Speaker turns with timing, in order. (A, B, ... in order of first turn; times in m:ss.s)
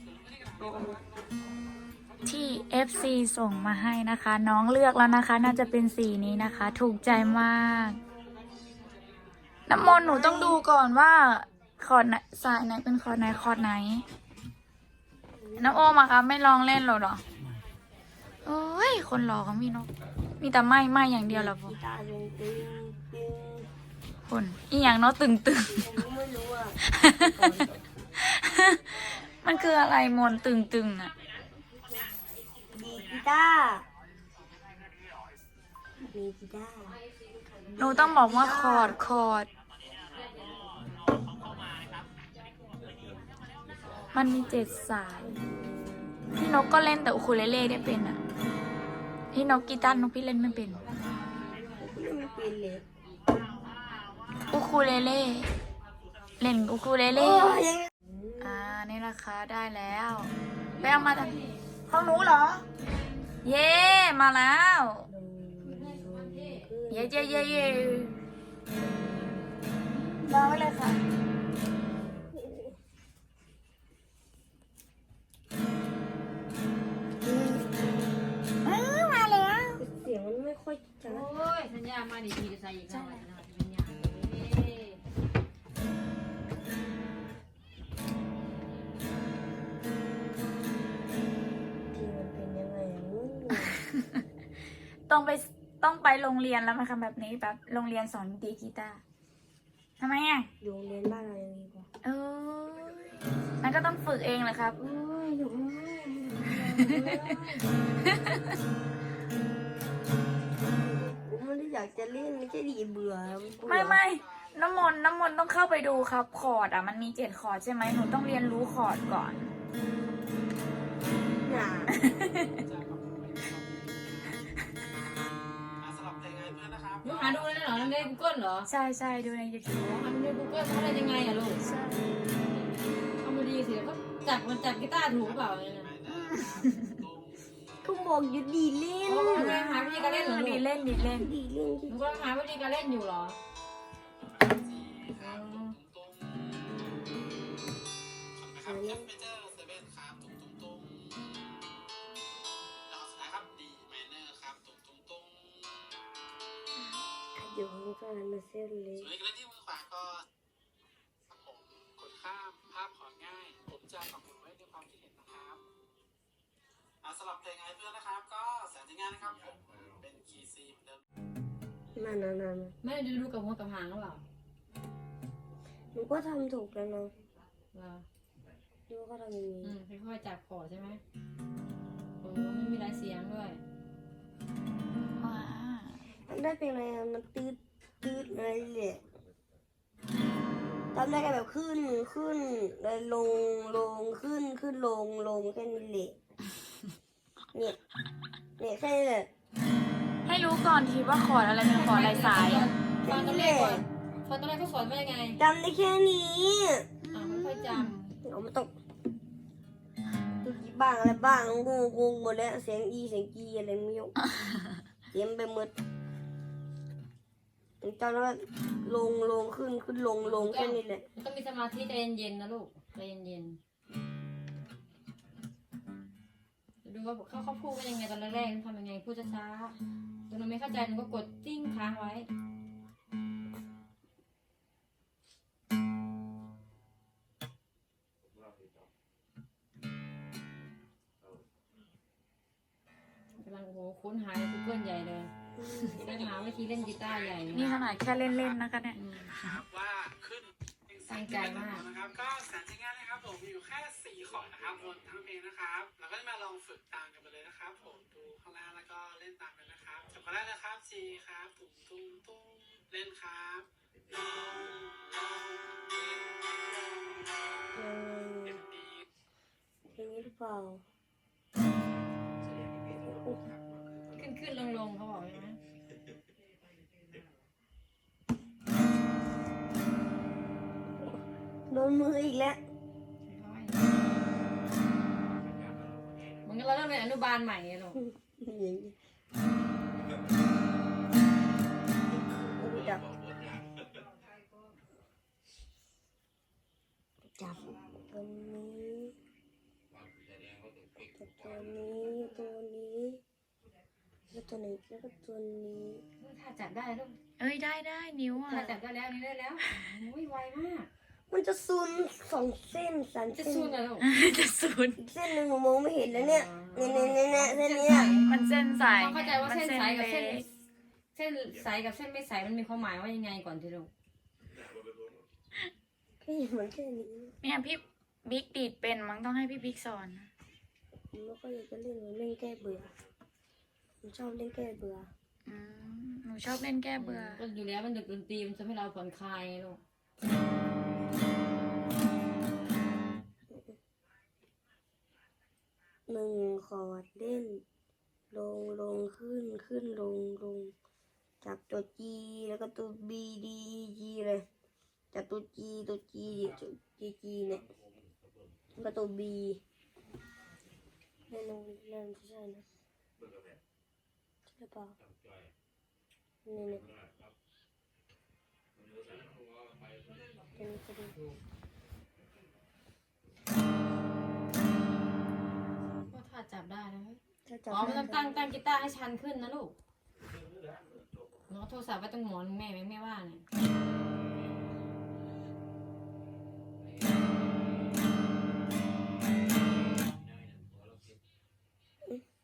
0:00.6-0:01.0 A
0:02.2-0:08.0 B
0:09.7-0:14.0 B
0:09.7-0:10.6 A
0:15.3-0:15.9 A
0:15.6-0:17.2 B
0:18.4-0:21.8 B
0:21.2-0:23.7 A
0:24.3-0:25.8 B
0:25.7-0:26.8 A
0:26.8-0:27.7 B
0:28.2-0:31.1 B
0:32.7-0:33.8 A
0:36.0-0:37.0 A
0:36.9-0:38.3 C
0:37.8-0:39.0 A
0:37.8-0:39.5 B
0:40.2-0:41.0 C
0:44.1-0:45.3 B
0:45.2-0:45.9 A
0:46.3-0:48.2 B
0:49.3-0:50.8 B
0:49.5-0:50.1 A
0:50.6-0:52.1 C
0:51.8-0:52.8 A
0:54.4-0:55.5 B
0:56.4-0:57.6 B
0:57.1-0:58.7 A
0:58.4-1:01.3 B
1:00.7-1:03.4 C
1:01.9-1:02.6 B
1:03.4-1:05.1 B
1:05.1-1:08.1 A
1:05.6-1:06.7 C
1:06.9-1:08.1 B
1:08.8-1:10.6 C
1:10.3-1:11.0 B
1:12.3-1:12.8 A
1:17.2-1:17.8 A
1:18.6-1:19.8 B
1:19.8-1:21.2 A
1:21.0-1:25.0 C
1:22.9-1:23.2 B
1:31.9-1:33.8 A
1:33.9-1:34.2 B
1:35.1-1:39.0 B
1:40.0-1:40.5 B
1:40.6-1:41.9 A
1:42.0-1:44.8 B
1:44.8-1:47.7 A
1:46.6-1:47.2 B
1:46.8-1:47.2 C
1:48.0-1:48.6 B
1:50.7-1:54.0 A
1:53.6-1:59.5 B
1:53.7-1:54.8 D
2:01.2-2:02.0 A
2:01.9-2:02.6 B
2:02.6-2:04.2 D
2:05.8-2:08.0 D
2:07.0-2:08.7 C
2:08.7-2:10.0 B
2:09.8-2:11.6 C
2:11.6-2:12.1 B
2:13.2-2:15.9 C
2:15.9-2:17.5 D
2:16.1-2:16.9 B
2:17.8-2:19.6 A
2:19.0-2:20.6 C
2:19.3-2:21.3 B
2:21.0-2:22.3 A
2:21.9-2:23.4 C
2:24.4-2:26.7 D
2:25.1-2:25.8 C
2:28.4-2:31.2 D
2:28.6-2:29.1 A
2:32.9-2:35.5 D
2:37.3-2:39.1 A
2:39.1-2:40.2 D
2:41.4-2:45.6 D
2:47.0-2:51.0 D
2:51.9-2:52.7 A
2:52.8-2:54.2 C
2:55.9-2:57.1 A
2:57.7-2:58.0 C
2:58.9-2:59.8 A
2:59.6-3:01.0 C
3:02.2-3:03.6 C
3:05.2-3:06.1 B
3:06.2-3:09.0 A
3:10.9-3:16.2 A
3:18.6-3:19.3 A
3:20.2-3:22.7 B
3:21.6-3:25.4 C
3:23.0-3:23.8 A
3:25.4-3:26.9 A
3:27.0-3:28.2 B
3:27.1-3:28.0 C
3:28.2-3:28.7 A
3:30.4-3:34.2 A
3:34.4-3:34.7 B
3:35.1-3:35.7 A
3:37.8-3:41.0 A
3:40.2-3:43.6 C
3:46.8-3:49.8 C
3:50.3-3:52.3 C
4:03.4-4:05.3 C
4:05.6-4:06.1 A
4:05.9-4:07.7 C
4:06.1-4:06.4 D
4:07.4-4:08.6 D
4:07.5-4:09.6 B
4:08.9-4:09.3 C
4:09.3-4:26.5 D
4:11.1-4:11.9 C
4:27.7-4:28.6 A
4:29.9-4:30.8 A
4:33.0-4:33.4 A
4:34.1-4:35.6 C
4:41.0-4:42.6 A
4:43.2-4:43.9 C
4:46.4-4:48.0 C
4:48.0-4:48.9 A
4:52.3-4:53.1 A
4:57.3-4:59.1 A
5:01.0-5:03.2 A
5:04.3-5:06.0 A
5:06.2-5:07.2 C
5:07.4-5:08.8 B
5:08.5-5:10.9 C
5:11.3-5:13.8 A
5:13.3-5:14.1 C
5:14.0-5:15.0 B
5:15.0-5:18.2 A
5:16.1-5:20.5 C
5:18.2-5:20.4 B
5:21.1-5:23.9 C
5:26.2-5:27.3 A
5:27.4-5:30.3 B
5:31.1-5:32.9 A
5:34.0-5:35.1 A
5:35.4-5:37.4 B
5:37.0-5:39.8 C
5:43.5-5:43.8 A
5:46.1-5:47.6 A
5:48.3-5:50.7 A
5:51.4-5:54.4 A
5:55.1-5:57.6 A
5:58.8-5:59.6 A
6:01.3-6:02.6 A
6:04.5-6:05.0 A
6:06.4-6:06.9 A
6:10.5-6:11.2 A
6:16.1-6:19.7 C
6:17.4-6:18.5 A
6:21.5-6:23.4 C